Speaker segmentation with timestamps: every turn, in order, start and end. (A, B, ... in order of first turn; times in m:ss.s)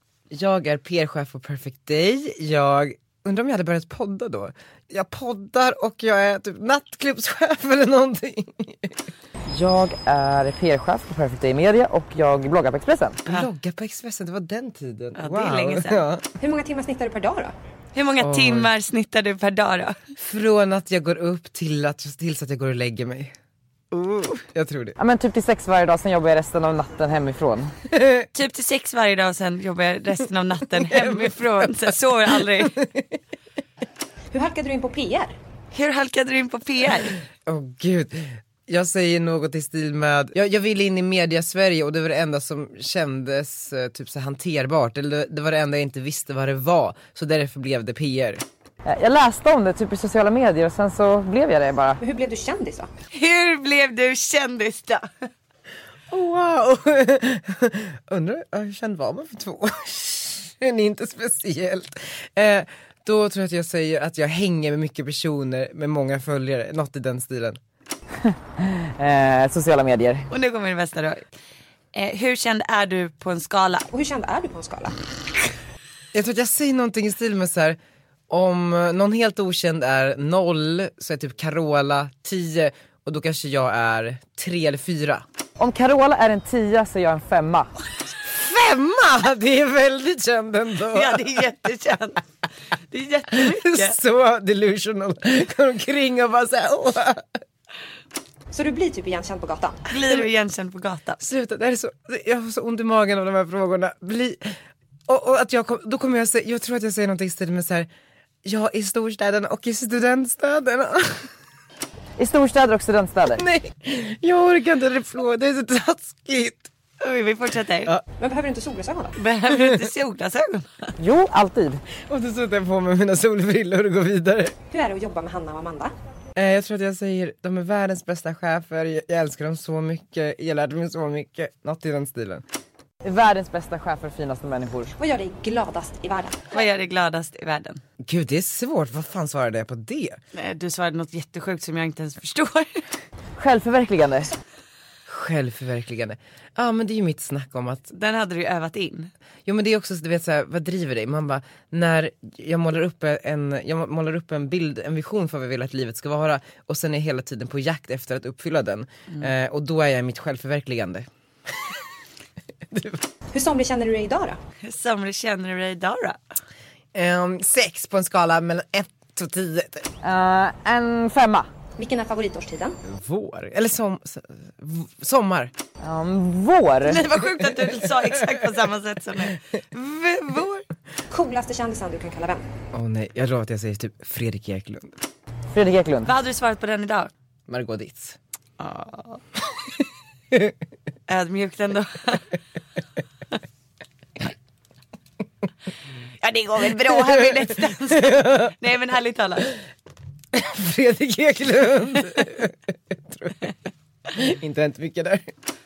0:00.3-0:08.9 A
0:09.5-0:13.2 B
0:13.2-0:16.2 A
0:15.2-0:16.0 C
0:16.4-0:17.5 D
0:17.9-0:20.0 C
0:18.2-0:18.7 A
0:20.2-0:23.3 A
0:24.2-0:25.0 A
0:25.0-0:27.7 B
0:27.9-0:28.2 A
0:28.3-0:32.8 C
0:30.8-0:31.7 A
0:32.7-0:33.0 A
0:34.3-0:35.3 D
0:35.7-0:37.2 C
0:37.4-0:48.4 A
0:48.8-0:52.0 B
0:52.0-0:52.9 D
0:53.1-0:55.1 C
0:56.1-1:07.6 A
1:08.2-1:10.3 B
1:10.3-1:11.2 C
1:11.9-1:13.9 C
1:13.9-1:14.9 D
1:16.1-1:17.8 A
1:18.3-1:25.2 A
1:25.6-1:27.7 B
1:28.2-1:31.4 A
1:30.9-1:32.2 C
1:32.9-1:34.0 C
1:33.3-1:37.2 A
1:38.5-1:39.8 D
1:39.9-1:41.2 C
1:41.2-1:44.6 A
1:45.1-1:47.9 A
1:48.4-1:51.3 A
1:52.2-1:53.4 B
1:53.4-1:56.7 A
1:57.0-1:57.9 C
1:58.2-1:59.2 D
1:59.2-2:00.9 C
2:01.0-2:01.8 B
2:02.1-2:04.5 A
2:04.7-2:05.9 D
2:06.4-2:12.4 A
2:13.0-2:14.9 B
2:15.0-2:16.5 D
2:16.5-2:17.8 C
2:18.0-2:20.2 A
2:20.3-2:22.8 C
2:23.4-2:24.3 B
2:25.1-2:27.9 A
2:27.9-2:29.1 C
2:29.4-2:41.1 A
2:42.7-2:43.0 A
2:43.3-2:44.4 D
2:44.6-2:46.2 C
2:46.9-2:49.9 A
2:50.0-2:51.5 B
2:51.8-2:52.8 D
2:52.8-2:55.5 A
2:55.8-2:57.0 B
2:56.8-3:00.6 C
3:01.1-3:02.4 D
3:02.7-3:04.9 A
3:05.5-3:06.1 B
3:06.0-3:07.1 C
3:07.5-3:08.2 A
3:08.6-3:09.0 C
3:11.1-3:12.3 C
3:16.2-3:19.5 C
3:16.9-3:17.2 A
3:18.2-3:18.5 A
3:20.3-3:23.5 A
3:24.1-3:25.3 A